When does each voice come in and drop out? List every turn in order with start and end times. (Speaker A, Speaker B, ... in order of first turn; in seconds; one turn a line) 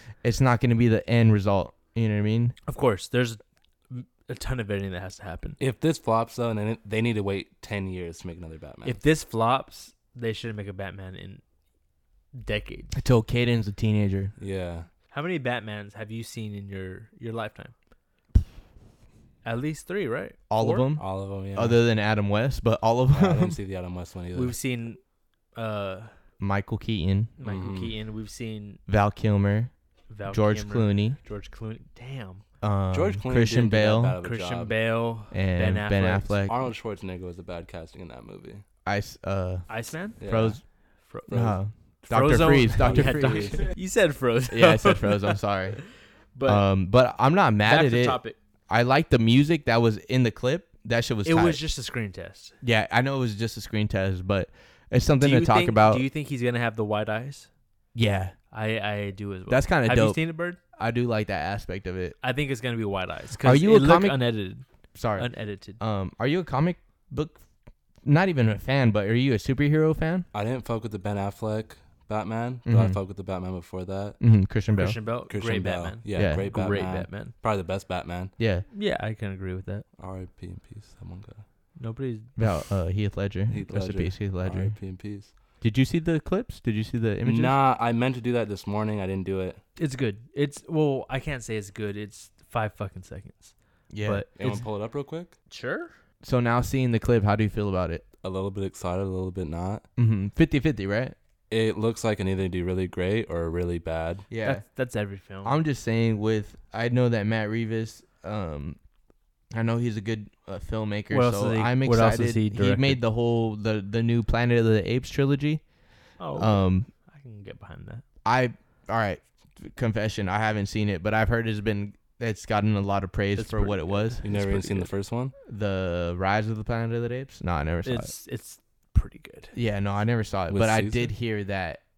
Speaker A: 0.2-2.6
Speaker B: 2.7-5.6
Speaker C: 5.6-9.0
Speaker B: 8.8-11.4
Speaker B: 12.3-13.0
Speaker A: 12.9-14.3
Speaker C: 14.4-14.9
Speaker B: 15.1-17.7
Speaker B: 19.4-20.9
Speaker A: 20.5-23.6
Speaker C: 21.0-21.8
Speaker C: 23.1-24.6
Speaker B: 24.4-25.0
Speaker B: 25.6-26.1
Speaker A: 26.4-27.3
Speaker B: 27.4-28.8
Speaker C: 27.4-27.9
Speaker A: 28.9-29.7
Speaker B: 30.1-32.4
Speaker A: 30.3-31.2
Speaker A: 32.6-34.2
Speaker C: 32.9-34.7
Speaker B: 34.2-36.4
Speaker A: 35.3-36.5
Speaker C: 36.5-38.6
Speaker A: 38.9-39.7
Speaker B: 39.7-40.2
Speaker A: 40.2-40.6
Speaker C: 40.2-40.6
Speaker B: 41.0-41.4
Speaker C: 41.3-41.6
Speaker A: 41.3-43.6
Speaker B: 42.1-46.7
Speaker C: 42.8-43.7
Speaker A: 44.5-45.8
Speaker A: 46.5-51.6
Speaker B: 47.6-48.4
Speaker B: 51.2-52.6
Speaker A: 52.6-56.0
Speaker B: 55.2-57.5
Speaker A: 58.0-58.4
Speaker B: 58.5-60.6
Speaker A: 59.5-60.2
Speaker A: 60.7-62.2
Speaker B: 62.2-64.6
Speaker A: 63.4-64.2
Speaker A: 65.0-67.4
Speaker B: 65.2-65.8
Speaker A: 68.0-70.3
Speaker C: 70.3-74.2
Speaker A: 72.7-73.0
Speaker A: 74.2-75.0
Speaker B: 74.7-77.3
Speaker C: 75.3-78.3
Speaker A: 76.2-76.5
Speaker A: 78.4-78.7
Speaker B: 78.7-79.8
Speaker C: 80.0-81.5
Speaker B: 81.8-82.3
Speaker A: 82.4-84.8
Speaker C: 83.5-85.3
Speaker A: 85.6-87.6
Speaker C: 87.2-89.6
Speaker B: 89.8-94.3
Speaker A: 93.9-94.6
Speaker C: 94.4-95.3
Speaker B: 95.5-95.9
Speaker A: 96.2-98.0
Speaker C: 98.2-99.8
Speaker A: 100.0-101.2
Speaker C: 101.5-104.3
Speaker A: 104.3-104.6
Speaker B: 104.4-105.6
Speaker A: 105.4-108.8
Speaker A: 109.5-115.6
Speaker B: 111.1-113.0
Speaker B: 116.2-118.0
Speaker A: 116.4-116.9
Speaker A: 118.2-124.8
Speaker B: 123.4-124.8
Speaker C: 124.2-125.3
Speaker A: 125.5-128.1
Speaker B: 127.8-129.5
Speaker A: 129.5-131.8
Speaker C: 130.5-131.1